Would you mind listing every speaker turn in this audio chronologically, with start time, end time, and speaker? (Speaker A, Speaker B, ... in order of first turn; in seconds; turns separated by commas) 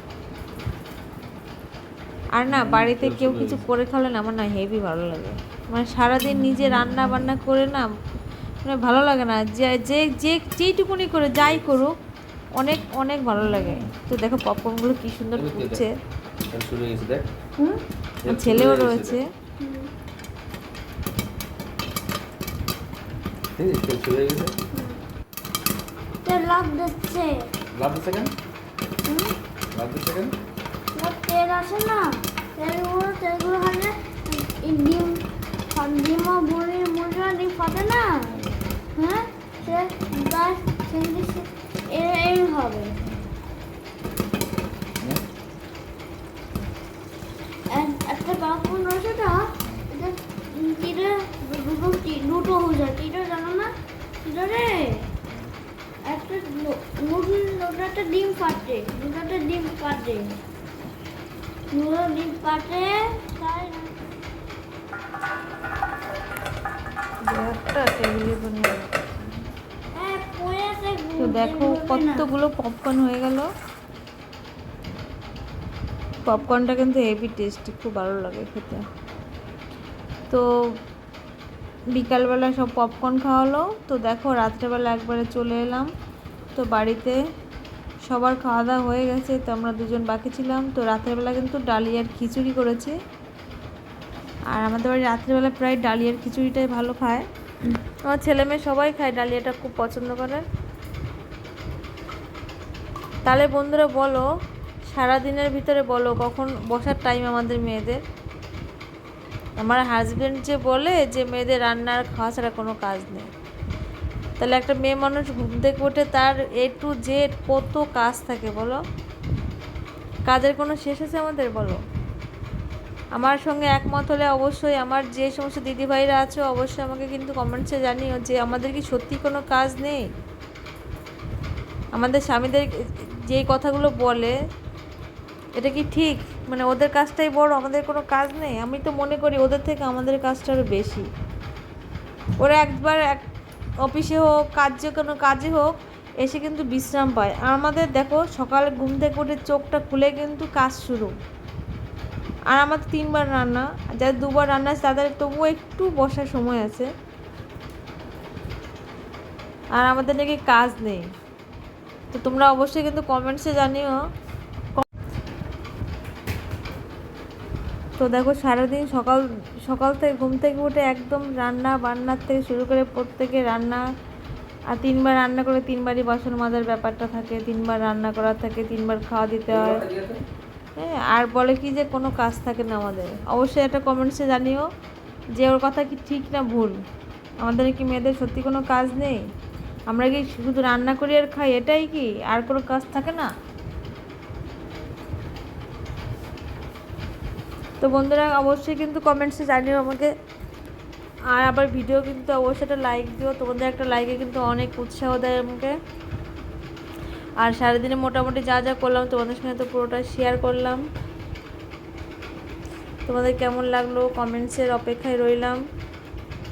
Speaker A: 2.4-7.9, Speaker B: 2.5-3.6, Speaker A: 8.6-11.9, Speaker B: 11.4-11.7, Speaker A: 12.6-15.9, Speaker B: 13.4-13.9, Speaker B: 15.3-15.8, Speaker B: 16.5-17.3, Speaker C: 17.6-17.8, Speaker B: 18.2-19.2, Speaker A: 18.2-19.3, Speaker C: 19.6-19.9, Speaker B: 23.6-24.6, Speaker C: 24.7-25.0, Speaker C: 26.2-27.5, Speaker B: 27.7-28.4, Speaker C: 29.1-29.3, Speaker B: 29.7-30.4, Speaker C: 30.9-38.4, Speaker B: 38.3-38.6, Speaker C: 39.0-43.0, Speaker C: 47.7-55.1, Speaker C: 56.0-60.4, Speaker C: 61.7-64.0, Speaker A: 67.2-69.1, Speaker C: 69.9-72.3, Speaker A: 71.2-73.5, Speaker A: 76.2-78.8, Speaker A: 81.9-85.9, Speaker A: 86.5-87.2, Speaker A: 88.0-93.0, Speaker A: 94.5-97.2, Speaker A: 98.0-100.5, Speaker A: 103.2-104.3, Speaker A: 104.9-108.0, Speaker A: 109.6-113.3, Speaker A: 114.4-118.8, Speaker A: 120.3-121.8, Speaker A: 123.2-130.1, Speaker A: 131.9-134.3, Speaker A: 135.6-141.1, Speaker A: 142.4-143.2, Speaker A: 143.8-151.1, Speaker A: 152.5-156.9, Speaker A: 159.8-161.1, Speaker A: 162.1-164.0, Speaker A: 168.0-173.8, Speaker A: 174.7-179.8, Speaker B: 179.5-180.2, Speaker A: 180.8-184.7, Speaker A: 185.4-186.8, Speaker A: 187.4-189.2, Speaker A: 189.9-193.3, Speaker A: 197.8-200.1, Speaker A: 201.3-205.8, Speaker A: 207.4-210.8, Speaker A: 213.1-215.6